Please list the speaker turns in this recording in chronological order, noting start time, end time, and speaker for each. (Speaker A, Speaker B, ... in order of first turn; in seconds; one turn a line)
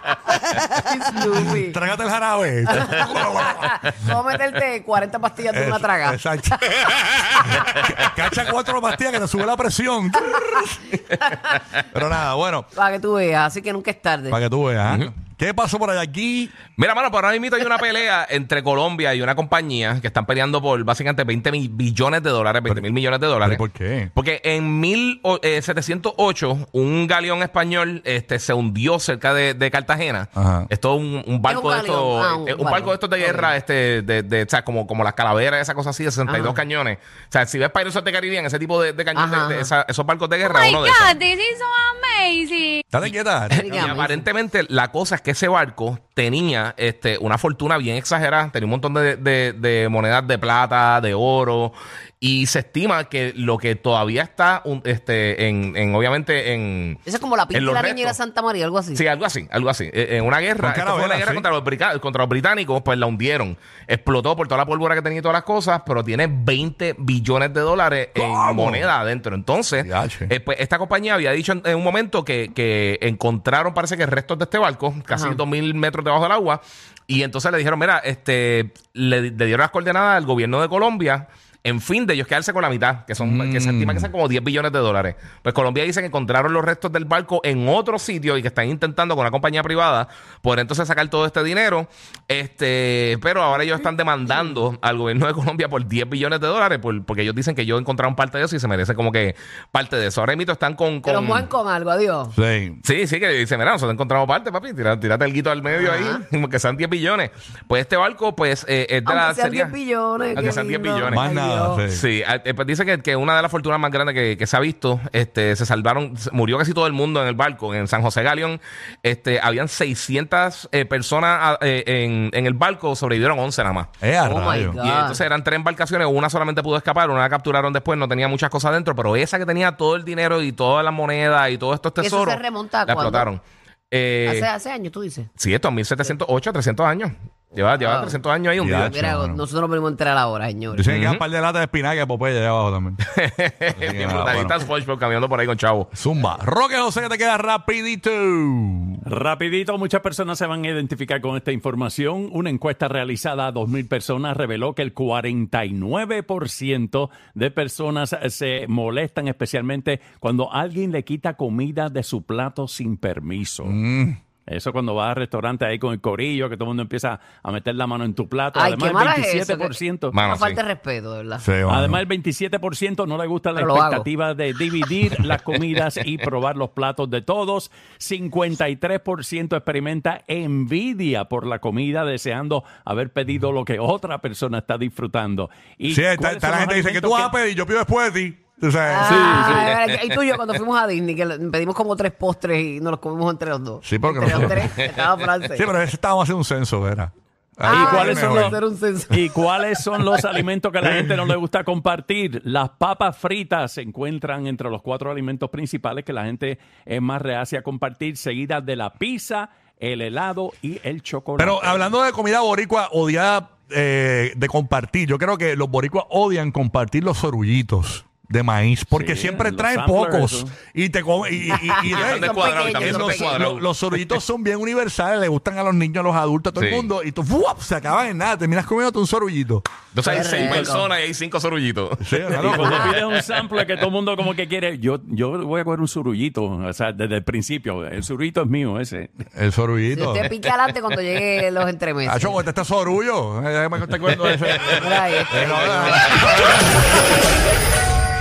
Speaker A: 0.5-1.8
Speaker B: 1.4-3.9
Speaker A: 2.7-6.2
Speaker B: 5.5-6.7
Speaker C: 7.2-8.0
Speaker B: 7.5-10.8
Speaker A: 10.2-11.6
Speaker B: 11.8-12.7
Speaker A: 12.7-14.4
Speaker B: 14.3-16.6
Speaker C: 14.9-15.1
Speaker C: 16.8-23.6
Speaker B: 23.4-24.1
Speaker C: 24.1-41.2
Speaker B: 30.4-30.7
Speaker A: 31.4-33.5
Speaker A: 36.2-36.6
Speaker A: 39.1-39.7
Speaker D: 40.6-42.8
Speaker B: 42.9-43.6
Speaker C: 43.5-57.0
Speaker A: 43.5-44.3
Speaker A: 57.1-59.0
Speaker C: 57.5-58.2
Speaker C: 58.9-101.5
Speaker B: 60.6-61.5
Speaker B: 68.2-68.9
Speaker B: 69.8-70.3
Speaker A: 75.1-75.4
Speaker B: 83.2-84.1
Speaker A: 101.0-102.3
Speaker B: 102.3-102.8
Speaker C: 102.8-109.7
Speaker A: 105.8-106.2
Speaker A: 109.1-111.8
Speaker C: 110.3-111.3
Speaker B: 111.0-112.0
Speaker C: 111.9-123.9
Speaker B: 124.0-124.8
Speaker A: 124.2-125.2
Speaker C: 124.6-134.5
Speaker A: 132.0-133.3
Speaker A: 134.2-135.3
Speaker C: 135.4-139.0
Speaker A: 137.8-138.2
Speaker B: 138.6-139.4
Speaker A: 138.8-140.8
Speaker B: 140.7-143.1
Speaker C: 140.9-141.2
Speaker C: 143.1-145.9
Speaker B: 143.8-144.6
Speaker B: 145.9-149.0
Speaker E: 149.1-163.8
Speaker B: 163.6-164.2
Speaker E: 164.5-170.2
Speaker A: 168.6-171.4
Speaker C: 170.1-170.6
Speaker B: 171.4-172.0
Speaker E: 171.7-187.3
Speaker A: 173.6-174.1
Speaker B: 185.9-189.6
Speaker A: 188.9-195.7
Speaker E: 189.1-189.8
Speaker B: 193.8-194.7
Speaker B: 195.5-198.6
Speaker A: 197.7-199.3
Speaker E: 197.7-211.9
Speaker B: 211.4-229.6
Speaker E: 218.9-220.6
Speaker A: 221.6-223.5
Speaker C: 221.9-223.7
Speaker C: 226.6-226.9
Speaker C: 229.9-233.2
Speaker A: 230.1-230.9
Speaker B: 232.0-232.9
Speaker E: 232.4-239.1
Speaker B: 239.3-240.3
Speaker A: 239.9-242.4
Speaker B: 242.1-246.8
Speaker C: 244.5-244.8
Speaker A: 244.8-246.2